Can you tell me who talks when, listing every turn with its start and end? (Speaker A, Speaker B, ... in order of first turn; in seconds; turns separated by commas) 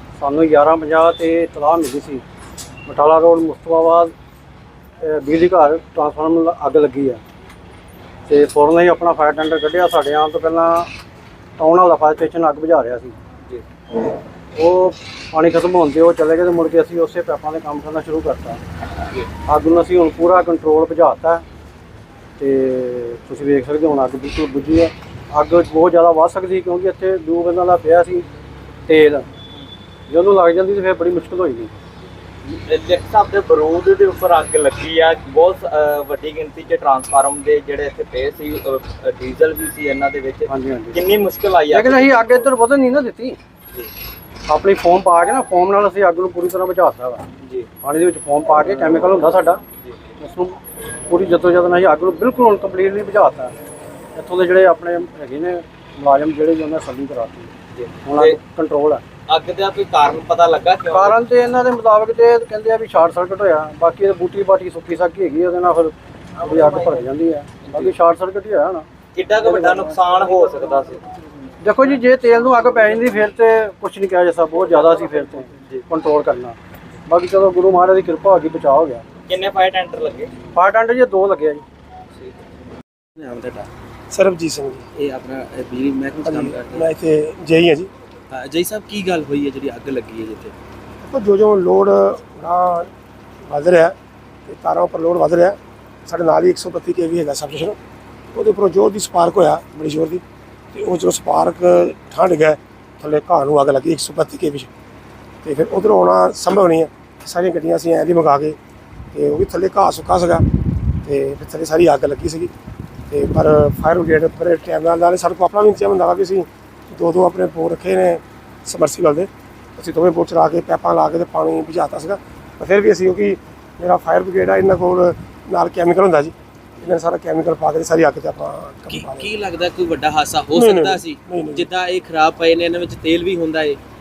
Speaker A: 0.2-2.2, Speaker A: 2.9-4.1, Speaker A: 5.0-7.2, Speaker A: 8.3-10.9, Speaker A: 11.6-13.2, Speaker A: 14.6-18.6, Speaker A: 19.5-21.4, Speaker A: 22.4-28.3, Speaker A: 28.9-29.3, Speaker A: 30.1-31.8, Speaker B: 32.7-42.5, Speaker A: 40.5-41.1, Speaker A: 41.7-43.4, Speaker A: 44.5-47.2, Speaker A: 47.8-49.6, Speaker A: 50.2-53.5, Speaker A: 54.2-57.5, Speaker B: 57.8-58.4, Speaker A: 58.0-59.0, Speaker B: 59.3-61.2, Speaker A: 60.9-68.8, Speaker B: 66.4-66.9, Speaker B: 67.7-67.9, Speaker B: 69.2-71.0, Speaker A: 69.4-69.8, Speaker A: 71.6-79.0, Speaker B: 79.3-80.3, Speaker A: 80.5-81.7, Speaker C: 83.2-83.7, Speaker D: 84.1-84.9, Speaker C: 85.0-86.9, Speaker D: 86.2-87.9, Speaker C: 88.3-90.5, Speaker D: 91.0-92.9, Speaker D: 93.5-94.0, Speaker D: 94.5-97.8, Speaker D: 98.3-104.7, Speaker D: 105.4-108.6, Speaker D: 109.1-110.5, Speaker D: 111.0-112.5, Speaker D: 113.1-129.3, Speaker C: 128.9-133.8, Speaker D: 130.5-131.7